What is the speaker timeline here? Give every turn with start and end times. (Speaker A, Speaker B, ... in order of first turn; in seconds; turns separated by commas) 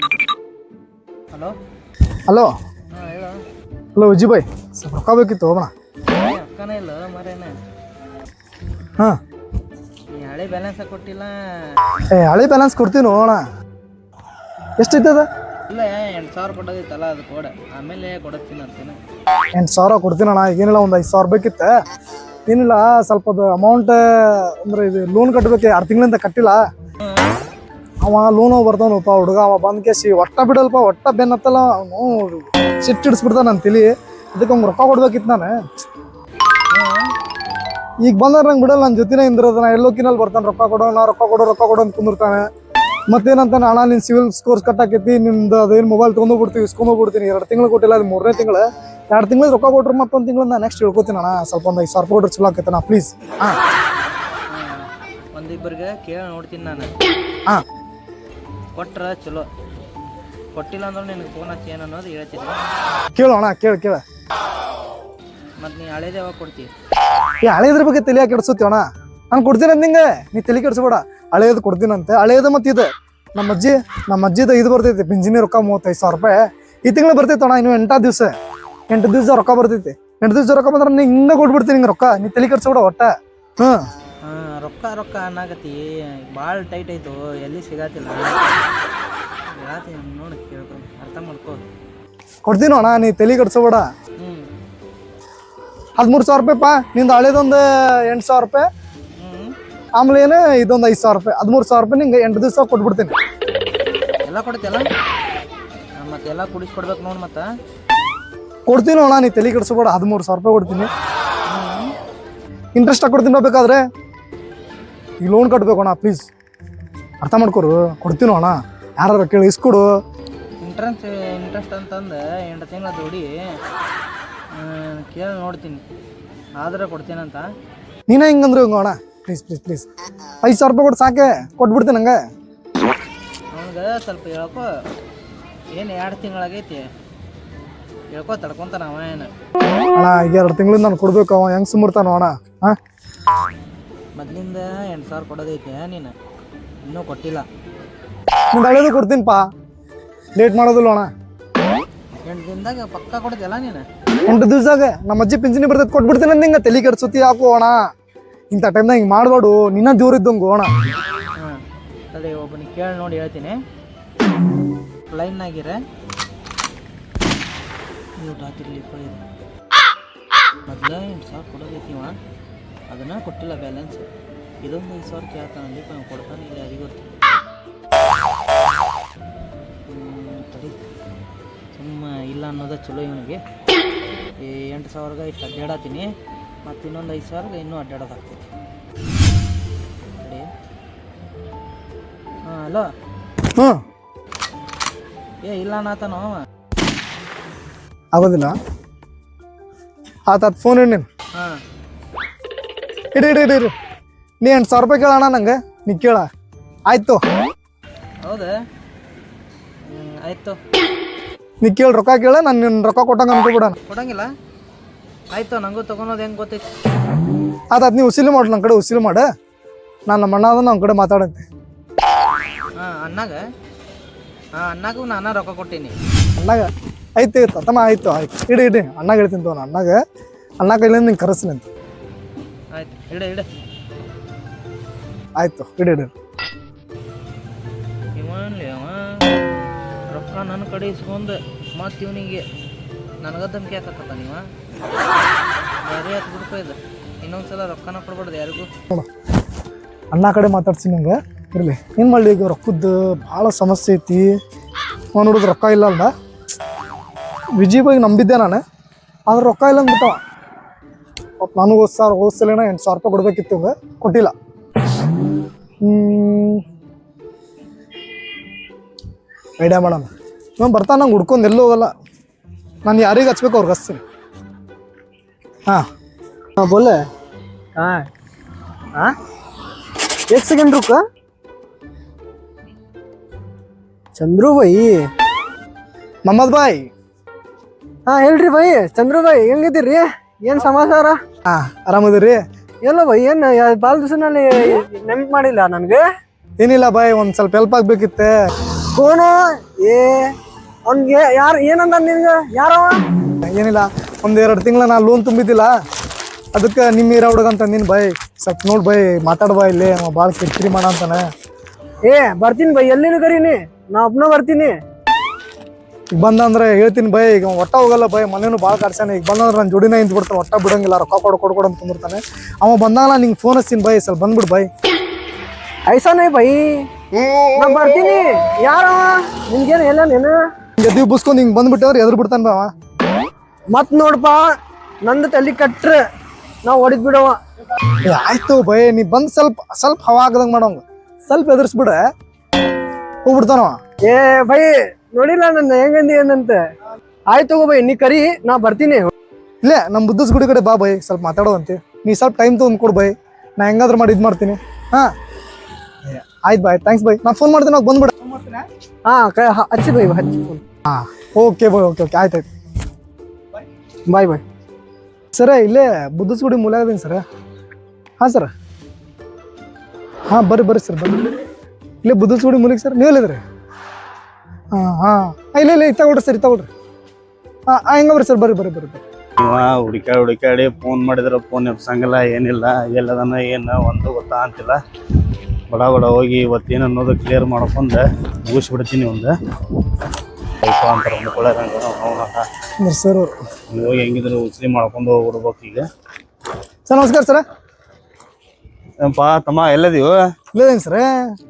Speaker A: 1.3-1.6, Speaker A: 2.9-3.4, Speaker B: 3.9-5.7, Speaker A: 6.1-7.5, Speaker A: 10.1-11.3, Speaker B: 12.1-13.4, Speaker B: 14.8-15.3, Speaker A: 15.7-19.0, Speaker B: 19.5-21.7, Speaker B: 22.5-26.6, Speaker A: 27.0-27.4, Speaker B: 28.0-35.5, Speaker A: 36.7-37.1, Speaker B: 38.0-42.4, Speaker B: 43.1-53.6, Speaker A: 54.5-56.9, Speaker A: 58.7-59.5, Speaker A: 60.5-62.6, Speaker B: 63.1-64.0, Speaker A: 65.6-66.7, Speaker B: 67.4-78.3, Speaker B: 78.9-83.8, Speaker A: 84.2-88.4, Speaker A: 89.5-91.6, Speaker B: 92.4-93.8, Speaker A: 94.2-94.5, Speaker B: 96.0-98.7, Speaker A: 99.2-99.5, Speaker B: 100.0-103.1, Speaker A: 104.2-104.8, Speaker A: 106.0-107.5, Speaker B: 108.7-110.9, Speaker A: 111.5-111.9, Speaker B: 112.7-113.8, Speaker B: 115.2-116.3, Speaker B: 117.2-119.9, Speaker A: 120.6-123.3, Speaker A: 124.5-125.8, Speaker A: 126.6-127.4, Speaker B: 128.1-129.9, Speaker B: 130.4-132.2, Speaker A: 133.5-134.6, Speaker A: 135.7-136.9, Speaker A: 138.1-139.3, Speaker B: 139.9-142.8, Speaker A: 144.2-146.1, Speaker A: 146.8-147.4, Speaker B: 148.5-149.4, Speaker B: 150.3-151.1, Speaker A: 152.2-153.8, Speaker B: 154.2-157.8, Speaker B: 158.5-160.7, Speaker A: 162.1-163.6, Speaker A: 165.1-165.8, Speaker A: 168.2-169.2, Speaker A: 170.7-172.2, Speaker A: 172.9-174.1, Speaker A: 174.6-177.1, Speaker A: 179.9-180.8, Speaker A: 181.7-183.4, Speaker A: 184.4-186.1, Speaker A: 186.6-188.4, Speaker A: 190.2-190.5, Speaker A: 192.4-192.9, Speaker A: 195.4-196.4, Speaker B: 198.1-198.5, Speaker B: 200.3-201.1, Speaker B: 203.1-203.7, Speaker B: 204.4-206.2, Speaker B: 206.9-207.2, Speaker A: 208.2-208.5, Speaker A: 209.8-210.6, Speaker B: 211.6-213.8, Speaker A: 213.8-214.3, Speaker A: 215.3-216.6, Speaker B: 217.7-219.2, Speaker B: 220.1-221.4, Speaker A: 222.8-223.4, Speaker A: 224.5-225.9, Speaker B: 226.4-230.0, Speaker B: 230.6-231.7, Speaker A: 232.7-233.4, Speaker B: 235.4-236.1, Speaker A: 238.2-239.3, Speaker A: 240.1-242.4, Speaker A: 243.2-244.4, Speaker A: 245.8-248.7, Speaker B: 250.1-254.3, Speaker B: 255.1-256.1, Speaker B: 257.6-258.6, Speaker B: 259.3-260.2, Speaker B: 261.4-264.3, Speaker B: 265.8-266.6, Speaker B: 269.6-270.1, Speaker B: 270.6-271.9, Speaker B: 272.8-274.0, Speaker C: 276.6-277.0, Speaker C: 277.8-278.1, Speaker C: 280.3-281.0, Speaker C: 284.1-285.1, Speaker B: 286.2-286.8, Speaker C: 288.1-291.1, Speaker B: 291.5-292.4, Speaker C: 292.8-296.0, Speaker B: 296.6-298.3, Speaker C: 298.9-300.3, Speaker C: 300.9-302.9, Speaker B: 303.4-305.7, Speaker B: 306.5-311.2, Speaker C: 312.1-314.7, Speaker B: 316.1-324.7, Speaker C: 325.9-326.7, Speaker C: 327.6-330.4, Speaker B: 330.8-332.7, Speaker C: 333.7-336.0, Speaker C: 336.6-337.4, Speaker B: 338.1-342.0, Speaker B: 343.2-343.8, Speaker C: 344.0-346.6, Speaker C: 347.3-349.1, Speaker B: 349.6-355.1, Speaker B: 356.0-358.6, Speaker C: 359.0-360.6, Speaker B: 360.9-362.4, Speaker C: 364.1-364.4, Speaker B: 365.3-367.2, Speaker B: 368.2-368.5, Speaker B: 370.3-371.3, Speaker B: 372.0-373.4, Speaker B: 374.7-376.7, Speaker B: 377.7-379.0, Speaker D: 379.4-384.8, Speaker D: 385.7-389.3, Speaker D: 390.6-392.4, Speaker B: 392.8-393.3, Speaker D: 393.7-395.8, Speaker B: 396.9-397.4, Speaker D: 399.0-400.2, Speaker B: 400.5-401.1